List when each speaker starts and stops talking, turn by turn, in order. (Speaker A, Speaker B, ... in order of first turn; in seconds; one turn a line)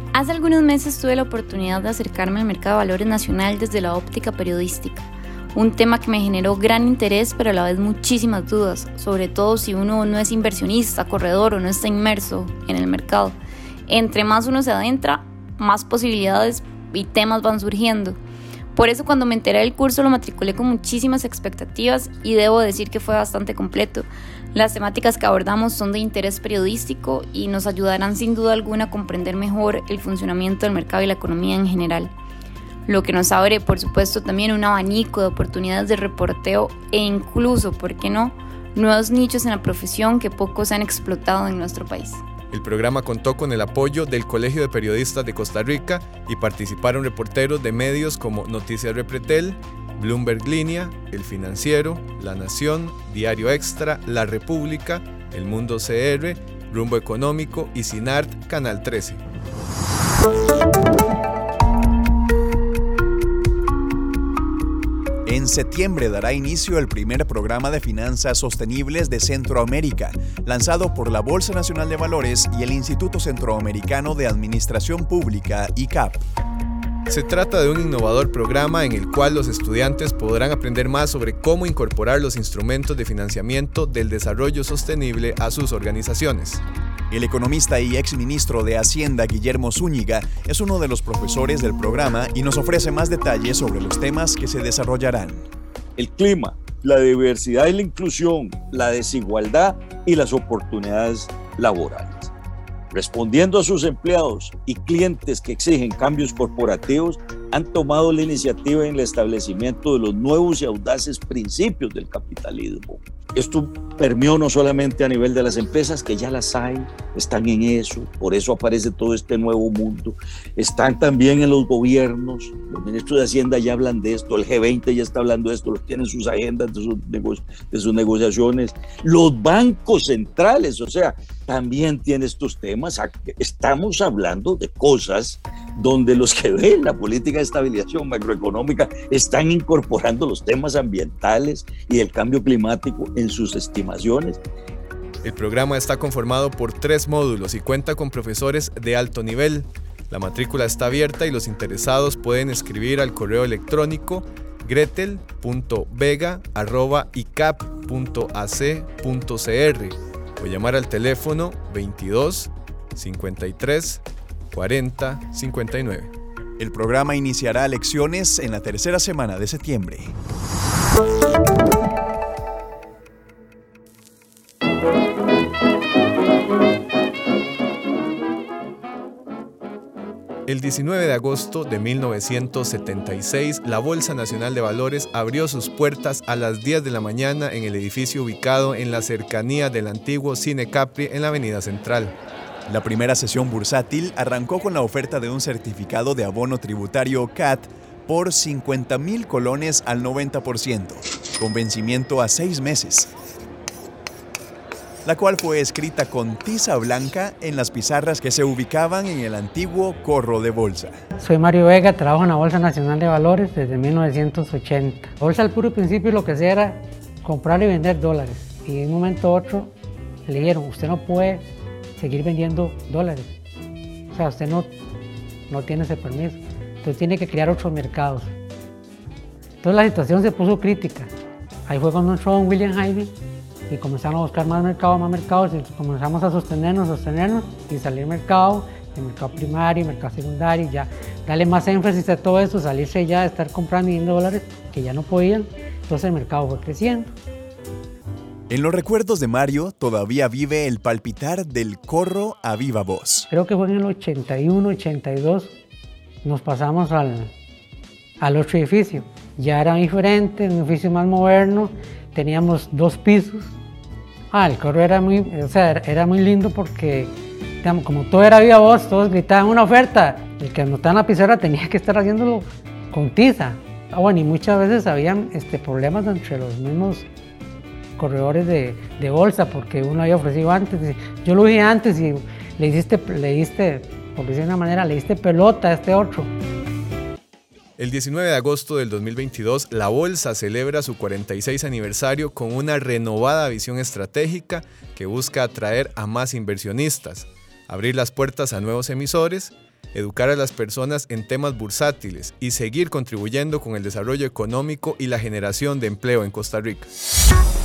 Speaker A: 0.1-18.2
Speaker A: 18.7-32.1
Speaker A: 32.9-42.2
Speaker B: 42.5-59.2
Speaker C: 65.2-76.2
Speaker B: 77.1-86.6
Speaker C: 87.1-95.4
Speaker D: 96.0-102.3
Speaker D: 102.9-144.4
Speaker B: 145.2-166.1
Speaker C: 166.6-170.1
Speaker B: 180.5-192.1
Speaker C: 192.7-203.1
Speaker C: 205.0-211.0
Speaker E: 211.2-219.7
Speaker E: 220.2-221.4
Speaker E: 222.0-223.3
Speaker E: 224.1-224.7
Speaker E: 225.5-228.3
Speaker E: 229.6-231.1
Speaker E: 231.7-233.1
Speaker E: 233.7-247.1
Speaker C: 248.5-253.2
Speaker E: 253.3-255.5
Speaker E: 256.2-257.3
Speaker E: 258.2-263.6
Speaker E: 264.3-277.1
Speaker E: 278.0-286.3
Speaker B: 287.8-306.9